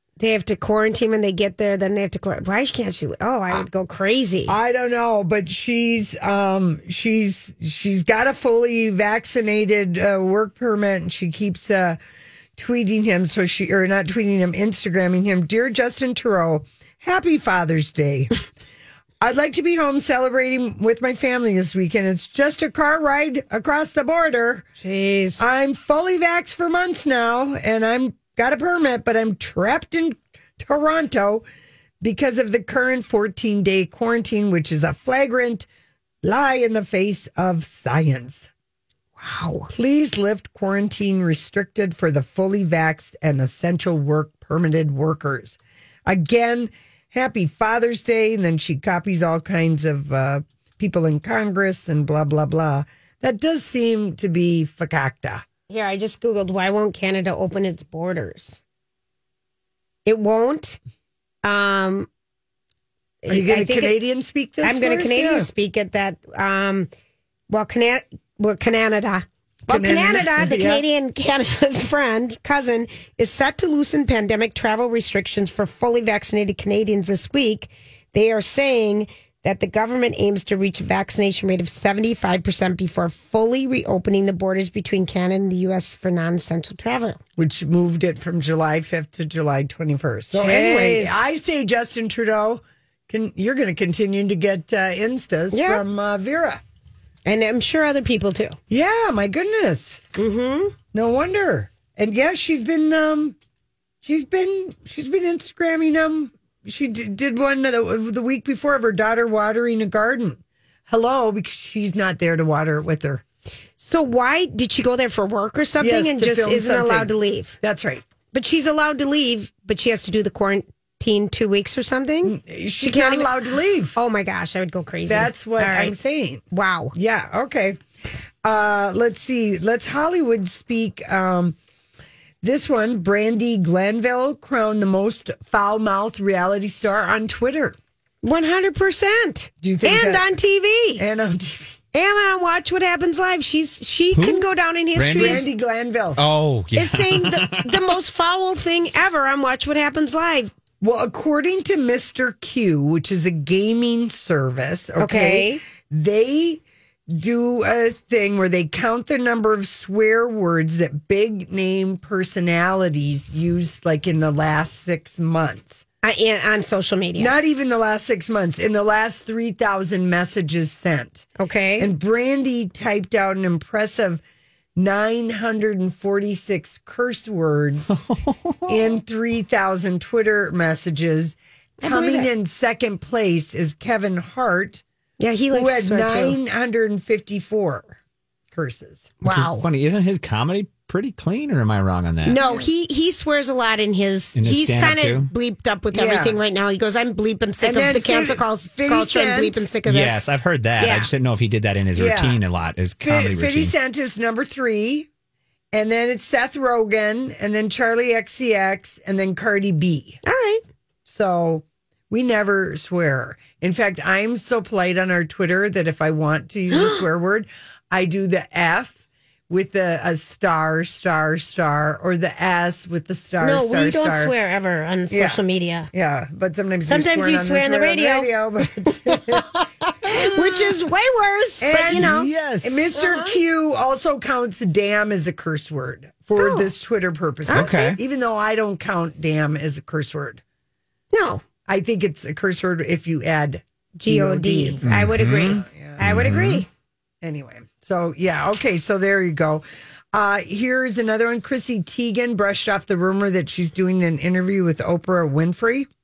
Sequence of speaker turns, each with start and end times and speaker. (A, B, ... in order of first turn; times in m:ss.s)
0:00.2-0:04.6 A
0:04.5-0:12.0 B
0:12.6-0:18.3 B
0:19.2-0:24.7 B
0:24.8-0:25.4 A
0:25.4-0:31.4 B
0:32.0-0:35.7 B
0:36.2-0:38.5 B
0:39.2-0:39.7 A
0:39.7-0:55.4 B
0:55.7-0:58.6 A
1:00.0-1:00.8 A
1:01.4-1:02.1 A
1:03.2-1:04.0 A
1:03.3-1:05.5 B
1:04.6-1:06.9 A
1:07.5-1:27.2 A
1:09.7-1:10.8 B
1:27.4-1:36.6 B
1:30.3-1:31.3 A
1:35.5-1:35.8 A
1:37.2-1:38.6 A
1:38.7-1:40.0 B
1:40.2-1:40.8 A
1:40.9-1:43.4 B
1:44.0-1:53.2 B
1:53.8-1:57.6 A
1:55.8-1:58.0 B
1:58.3-2:03.3 A
2:02.2-2:04.0 B
2:04.0-2:06.0 A
2:05.1-2:06.4 B
2:06.5-2:07.0 A
2:07.0-2:07.8 B
2:08.4-2:11.6 B
2:12.4-2:17.8 B
2:18.2-2:21.0 A
2:19.6-2:20.3 B
2:21.0-2:21.8 B
2:21.9-2:25.5 A
2:24.1-2:25.5 C
2:25.1-2:26.2 B
2:26.2-2:27.9 C
2:26.7-2:30.5 A
2:30.8-2:45.8 B
2:35.0-2:35.6 A
2:46.0-2:47.4 A
2:47.2-2:51.3 B
2:51.4-2:51.9 A
2:51.8-2:54.2 B
2:54.8-2:57.9 B
2:57.9-2:59.0 C
2:58.7-3:04.8 B
3:01.8-3:02.3 A
3:05.2-3:06.4 A
3:05.5-3:08.0 B
3:08.5-3:09.2 B
3:09.2-3:09.7 A
3:09.3-3:12.4 C
3:12.3-3:20.2 A
3:12.4-3:12.7 B
3:14.4-3:15.3 C
3:15.9-3:16.4 B
3:17.6-3:19.7 B
3:19.9-3:23.7 C
3:20.8-3:21.1 A
3:22.0-3:22.4 B
3:23.0-3:25.1 B
3:25.7-3:30.2 B
3:30.2-3:30.6 A
3:31.1-3:39.0 B
3:36.7-3:37.0 A
3:39.5-3:44.3 B
3:43.4-3:45.9 A
3:45.1-3:45.4 B
3:45.9-3:50.7 B
3:46.9-3:49.5 A
3:50.0-3:52.3 A
3:51.6-4:00.4 B
3:51.9-3:53.0 C
3:52.9-3:53.4 A
3:56.4-3:56.7 A
3:57.5-3:58.0 A
3:57.5-3:58.0 C
4:01.1-4:01.4 A
4:01.7-4:06.6 B
4:04.0-4:06.7 A
4:04.8-4:06.6 C
4:07.2-4:15.9 B